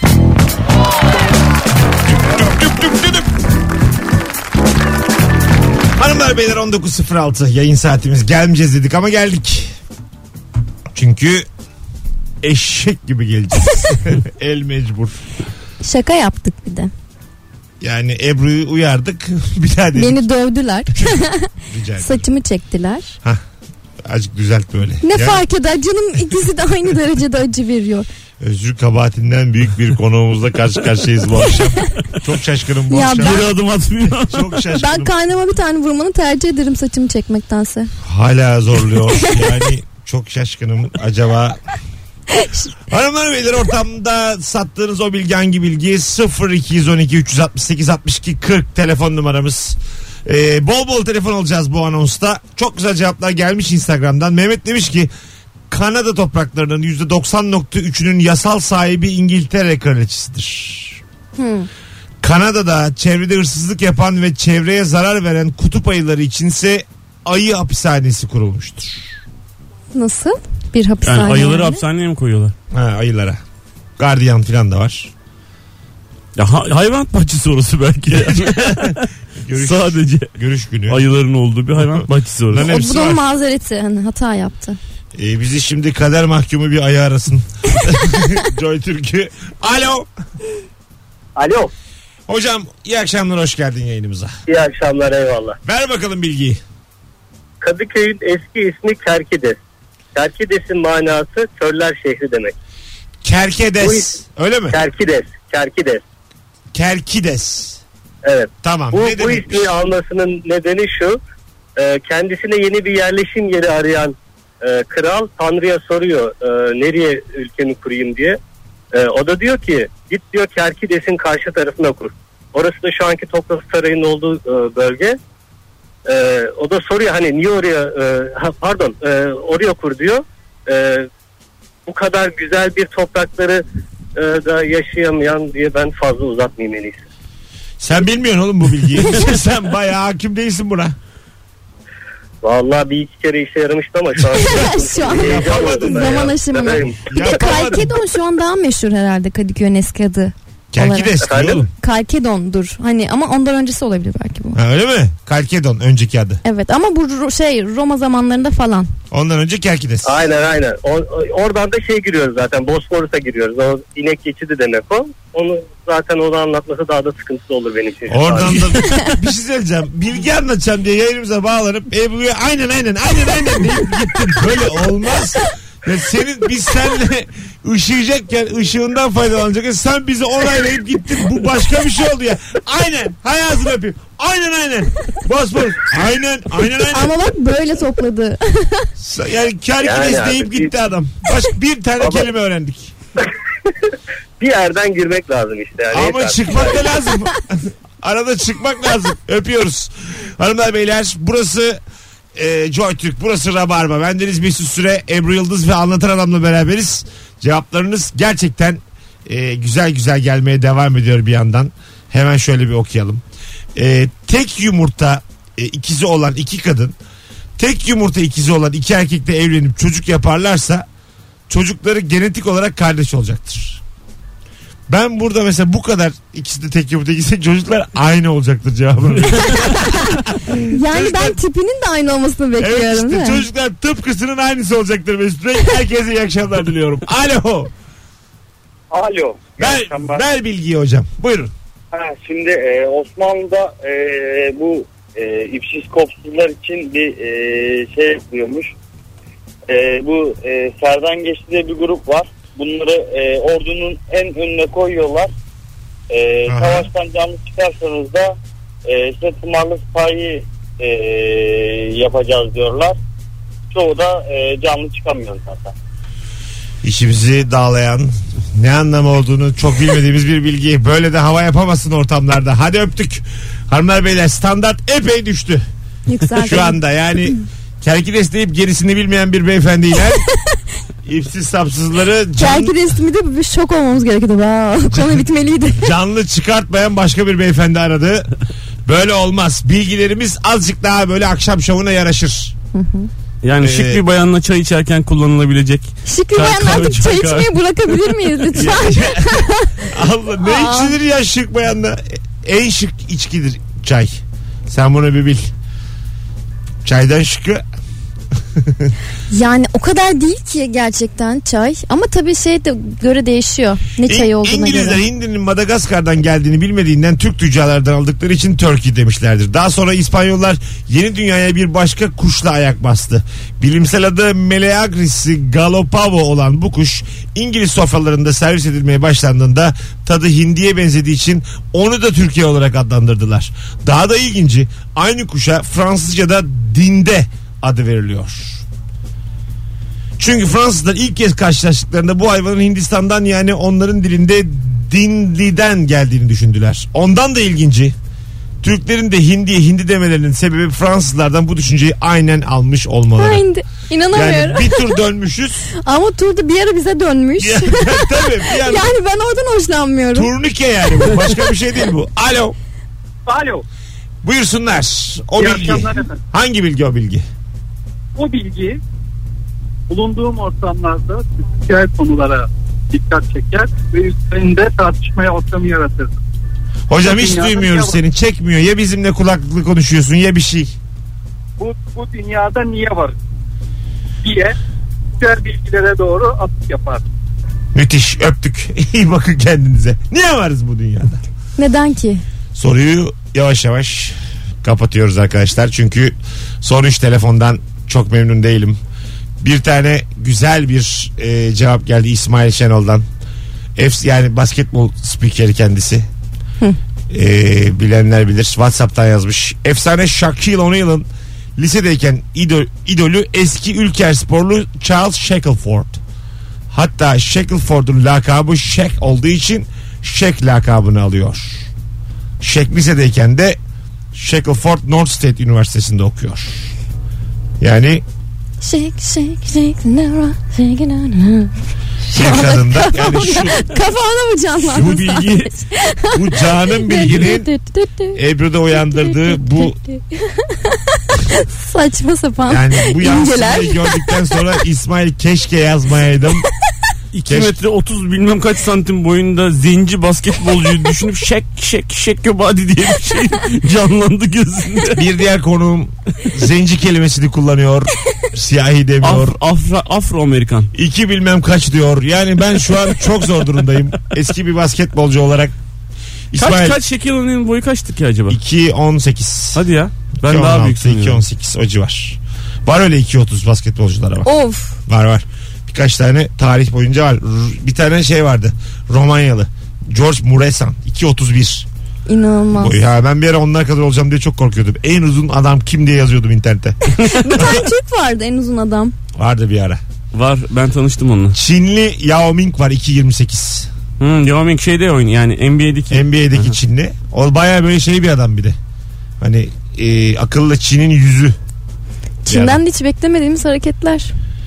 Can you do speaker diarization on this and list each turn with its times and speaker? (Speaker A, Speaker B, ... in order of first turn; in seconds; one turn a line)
Speaker A: 2.2-3.2
Speaker A: 6.0-9.7
Speaker A: 10.9-11.5
Speaker A: 12.4-15.2
Speaker B: 15.8-16.9
Speaker A: 17.8-20.2
Speaker B: 19.9-23.1
Speaker A: 20.9-22.2
Speaker A: 24.0-25.4
Speaker B: 25.0-28.1
Speaker A: 28.4-33.5
Speaker B: 32.9-33.5
Speaker C: 33.2-34.5
Speaker A: 34.0-35.1
Speaker B: 34.7-37.9
Speaker A: 38.0-41.6
Speaker B: 42.3-42.7
Speaker A: 42.9-55.1
Speaker A: 55.7-61.0
Speaker B: 61.4-61.7
Speaker A: 62.2-69.1
Speaker B: 69.9-71.8
Speaker C: 71.0-72.5
Speaker A: 72.7-73.4
Speaker A: 74.0-75.1
Speaker C: 76.3-80.3
Speaker A: 78.0-81.0
Speaker C: 80.9-82.7
Speaker A: 81.8-83.2
Speaker B: 82.5-84.8
Speaker A: 85.1-90.1
Speaker D: 91.3-91.7
Speaker A: 92.3-94.3
Speaker D: 94.5-95.6
Speaker A: 95.6-96.6
Speaker D: 97.6-99.6
Speaker D: 100.1-102.5
Speaker A: 103.2-104.8
Speaker D: 103.8-104.1
Speaker D: 104.7-106.0
Speaker A: 106.7-107.8
Speaker D: 108.2-111.2
Speaker A: 108.6-109.7
Speaker D: 111.8-118.4
Speaker D: 118.9-125.2
Speaker D: 126.0-131.1
Speaker D: 131.8-133.6
Speaker D: 134.1-137.0
Speaker A: 137.8-140.9
Speaker D: 142.4-147.3
Speaker A: 144.2-146.3
Speaker B: 144.3-151.1
Speaker A: 147.0-147.9
Speaker A: 150.7-151.7
Speaker D: 151.2-151.7
Speaker B: 151.8-154.6
Speaker A: 154.5-156.4
Speaker B: 156.4-158.9
Speaker A: 159.1-160.2
Speaker D: 160.0-168.8
Speaker A: 168.1-187.1
Speaker B: 186.9-188.9
Speaker A: 189.0-192.9
Speaker D: 189.8-190.7
Speaker D: 194.4-196.9
Speaker A: 195.9-201.8
Speaker A: 202.3-213.2
Speaker A: 213.7-216.9
Speaker A: 217.6-220.8
Speaker A: 221.5-223.8
Speaker A: 224.9-231.4
Speaker B: 229.7-233.4
Speaker A: 232.6-237.7
Speaker E: 238.9-240.3
Speaker A: 239.6-241.5
Speaker E: 241.9-248.7
Speaker E: 249.7-255.3
Speaker E: 256.1-263.0
Speaker A: 256.5-256.9
Speaker E: 263.7-265.7
Speaker A: 266.8-275.6
Speaker B: 276.1-276.8
Speaker A: 276.3-280.2
Speaker A: 281.0-282.8
Speaker B: 282.4-285.9
Speaker A: 285.8-288.3
Speaker A: 288.9-292.5
Speaker B: 292.7-293.1
Speaker C: 293.4-298.9
Speaker A: 293.6-294.0
Speaker B: 296.1-300.9
Speaker A: 298.6-305.5
Speaker A: 306.8-307.6
Speaker A: 308.5-308.9
Speaker B: 309.3-315.0
Speaker A: 314.0-338.6
Speaker A: 340.2-347.9
Speaker A: 348.6-353.4
Speaker B: 353.1-354.9
Speaker A: 354.1-355.7
Speaker B: 355.8-360.3
Speaker A: 357.4-358.9
Speaker A: 360.1-362.5
Speaker F: 363.3-363.6
Speaker A: 364.2-367.2
Speaker F: 365.4-366.2
Speaker F: 368.1-368.8
Speaker F: 369.9-376.2
Speaker A: 376.9-380.7
Speaker F: 377.0-378.0
Speaker F: 381.6-383.2
Speaker F: 384.2-384.6
Speaker F: 385.2-387.0
Speaker A: 387.7-391.2
Speaker B: 391.6-392.2
Speaker A: 392.5-398.8
Speaker A: 399.4-403.0
Speaker A: 403.8-406.1
Speaker A: 407.1-416.0
Speaker A: 416.7-421.7
Speaker A: 422.4-423.6
Speaker A: 424.1-426.7
Speaker A: 427.6-428.0
Speaker B: 428.6-438.2
Speaker A: 432.1-433.6
Speaker C: 434.7-435.5
Speaker A: 434.7-435.2
Speaker A: 436.1-437.5
Speaker A: 438.1-439.8
Speaker B: 438.9-444.3
Speaker A: 442.5-446.5
Speaker C: 447.1-455.1
Speaker A: 447.2-447.6
Speaker A: 454.9-459.3
Speaker C: 459.0-460.7
Speaker A: 460.7-465.5
Speaker A: 466.3-466.8
Speaker C: 466.3-468.4
Speaker A: 468.3-469.6
Speaker C: 469.5-471.2
Speaker A: 470.2-474.3
Speaker B: 474.2-474.8
Speaker A: 474.9-481.7
Speaker B: 482.1-482.8
Speaker A: 482.5-486.8
Speaker C: 486.9-487.3
Speaker B: 487.0-488.9
Speaker A: 487.3-487.6
Speaker A: 489.1-489.8
Speaker C: 490.1-491.4
Speaker A: 491.3-493.7
Speaker C: 494.0-496.5
Speaker A: 495.9-498.6
Speaker A: 499.2-501.4
Speaker B: 502.2-504.1
Speaker A: 502.3-502.6